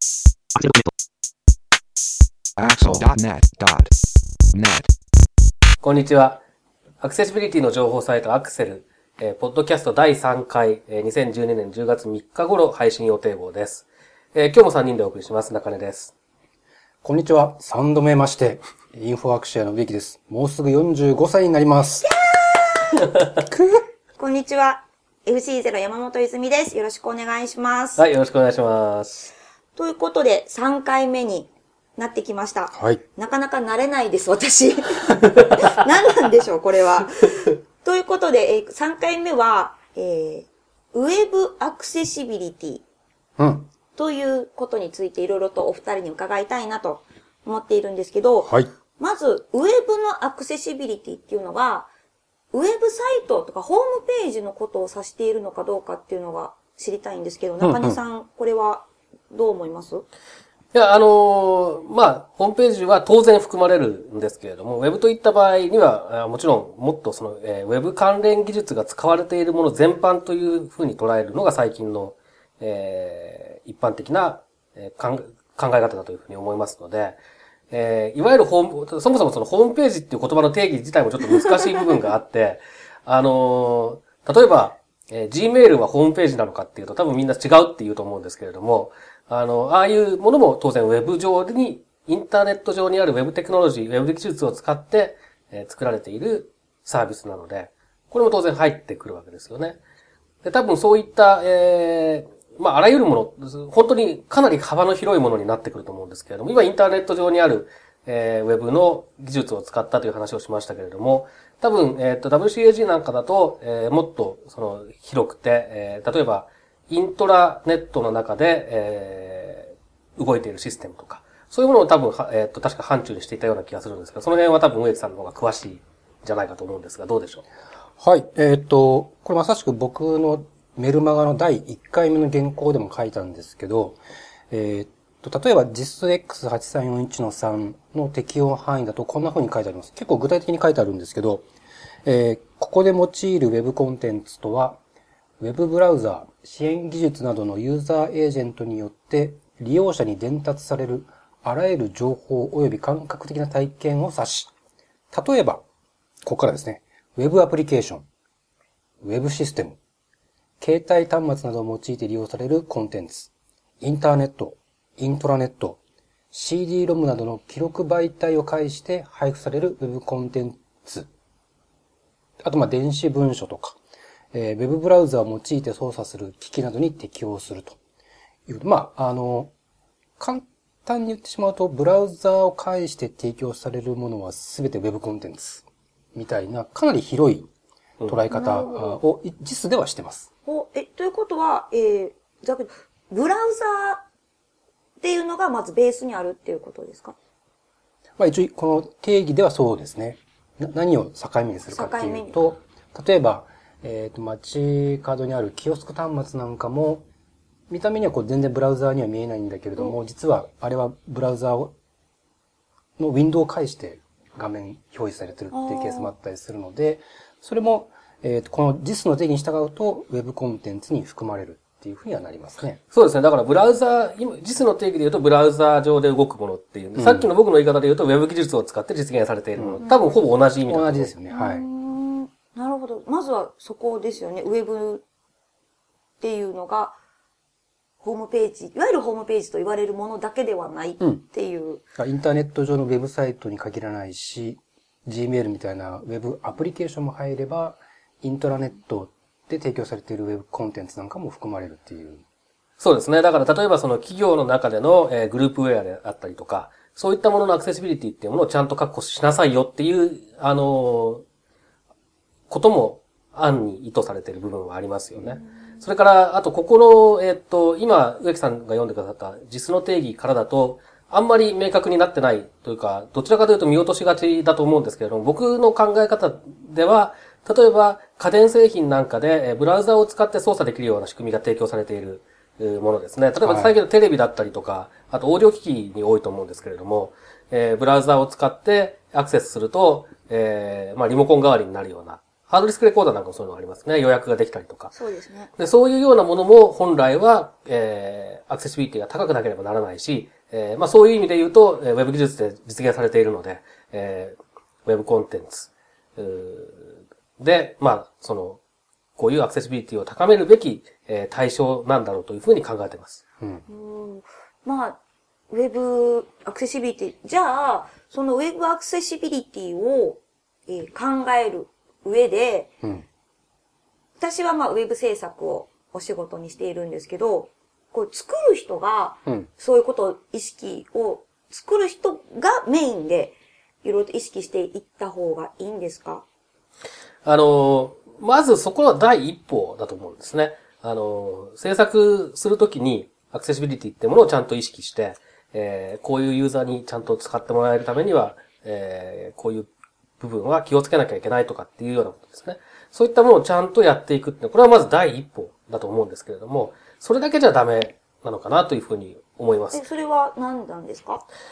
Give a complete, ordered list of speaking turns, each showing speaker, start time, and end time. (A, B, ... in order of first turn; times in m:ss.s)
0:00.6-0:00.8 A
0:02.6-0:03.9 A
0:04.5-0:04.9 A
0:05.8-0:06.4 B
0:07.0-0:16.1 B
0:17.0-0:22.1 C
0:22.0-0:23.0 D
0:23.5-0:23.8 C
0:24.2-0:28.0 D
0:28.0-0:29.3 B
0:29.8-0:42.8 D
0:32.8-0:33.0 C
0:43.4-0:43.7 C
0:43.9-0:51.9 D
0:48.4-0:48.7 C
0:52.5-1:00.0 D
0:57.6-0:58.0 C
1:00.7-1:17.2 B
1:17.7-1:39.8 B
1:40.4-2:07.4 B
2:08.0-2:14.0 C
2:14.5-2:21.4 C
2:22.0-2:24.8 C
2:25.4-2:34.5 C
2:35.1-2:35.6 C
2:36.2-2:38.1 C
2:39.0-2:39.8 C
2:40.6-2:45.8 C
2:46.3-2:51.1 C
2:52.4-2:53.8 C
2:54.3-2:57.8 C
2:58.5-2:59.5 C
3:00.2-3:07.5 C
3:08.0-3:10.3 C
3:08.3-3:09.0 D
3:10.4-3:14.0 D
3:15.0-3:17.2 D
3:18.2-3:27.0 C
3:21.7-3:22.4 D
3:27.7-3:31.7 C
3:33.0-3:42.8 C
3:35.5-3:36.1 D
3:42.9-3:51.1 B
3:47.0-3:47.3 C
3:49.6-3:49.8 C
3:50.7-3:51.6 C
3:51.3-3:55.0 D
3:56.2-3:57.0 D
3:58.0-4:01.8 D
4:02.0-4:12.2 C
4:12.8-4:21.2 B
4:22.5-4:54.9 B
4:43.4-4:43.7 C
4:54.9-4:55.5 D
4:55.6-5:08.6 B
5:09.2-5:13.2 B
5:13.7-5:15.0 D
5:15.5-5:22.7 D
5:24.2-5:36.2 D
5:37.2-5:49.7 B
5:50.2-5:59.8 B
5:59.7-6:01.2 D